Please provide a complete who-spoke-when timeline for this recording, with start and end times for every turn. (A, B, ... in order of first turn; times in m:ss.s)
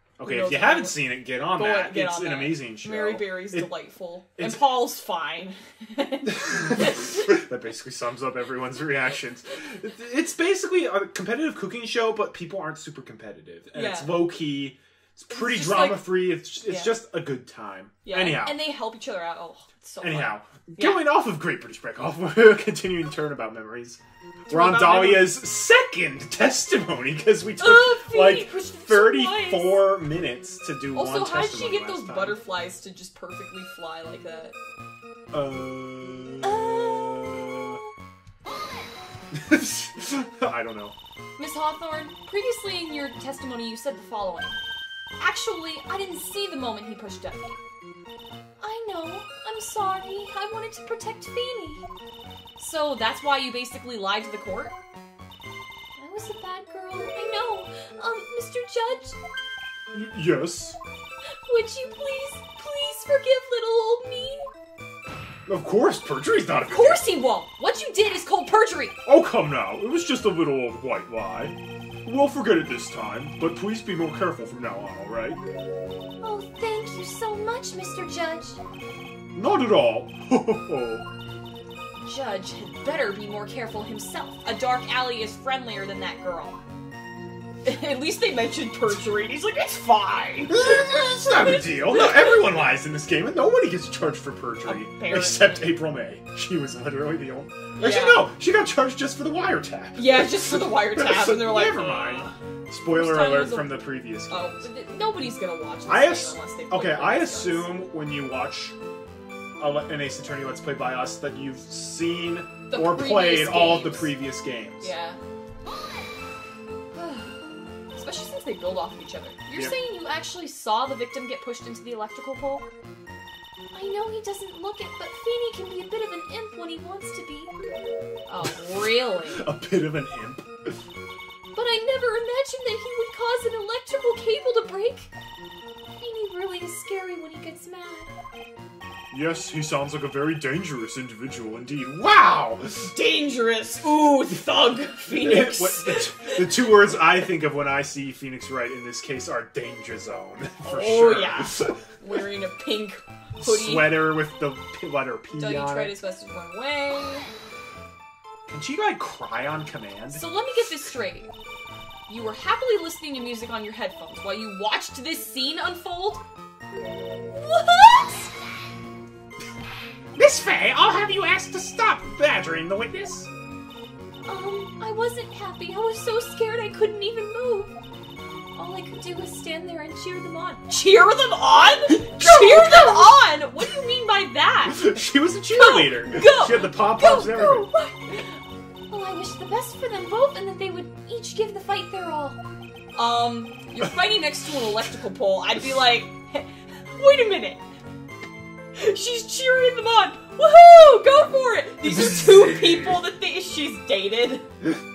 0:00.2-0:03.7 A
0:00.2-0:07.4 B
0:04.4-0:04.7 A
0:06.2-0:18.6 A
0:13.7-0:14.3 B
0:15.3-0:16.1 B
0:16.6-0:16.9 B
0:18.0-0:21.0 B
0:20.0-0:32.4 A
0:24.5-0:25.4 B
0:27.6-0:29.8 B
0:30.9-0:34.6 B
0:35.3-0:37.8 A
0:36.4-0:37.4 B
0:39.3-0:41.0 A
0:41.4-0:44.6 B
0:45.2-0:47.6 B
0:48.6-0:51.9 B
0:52.6-0:54.8 B
0:56.0-0:59.2 B
0:59.9-1:00.8 A
1:01.3-1:04.5 B
1:05.5-1:07.0 A
1:06.6-1:09.0 B
1:09.1-1:15.4 A
1:16.2-1:18.6 B
1:19.4-1:21.1 A
1:22.0-1:26.6 B
1:27.6-1:32.4 B
1:30.5-1:44.7 A
1:34.6-1:35.8 B
1:37.8-1:38.3 B
1:40.0-1:42.4 B
1:42.9-1:47.7 B
1:45.9-1:48.8 A
1:49.6-1:54.9 A
1:52.7-1:54.2 B
1:54.8-1:55.2 B
1:56.9-2:02.7 B
2:03.7-2:07.5 B
2:08.3-2:09.4 B
2:08.5-2:10.7 A
2:11.5-2:15.1 B
2:16.0-2:18.1 B
2:19.1-2:22.9 A
2:22.9-2:26.7 B
2:25.1-2:31.8 A
2:30.6-2:34.1 B
2:33.4-2:36.0 A
2:35.4-2:37.3 B
2:38.5-2:40.2 A
2:40.1-2:41.3 B
2:42.1-2:46.2 B
2:47.3-2:48.3 B
2:50.2-2:53.3 A
2:54.2-2:57.7 B
2:58.6-3:04.8 B
3:01.9-3:03.2 A
3:04.7-3:07.7 A
3:05.6-3:12.4 B
3:13.0-3:17.6 B
3:18.8-3:24.4 B
3:21.8-3:23.0 A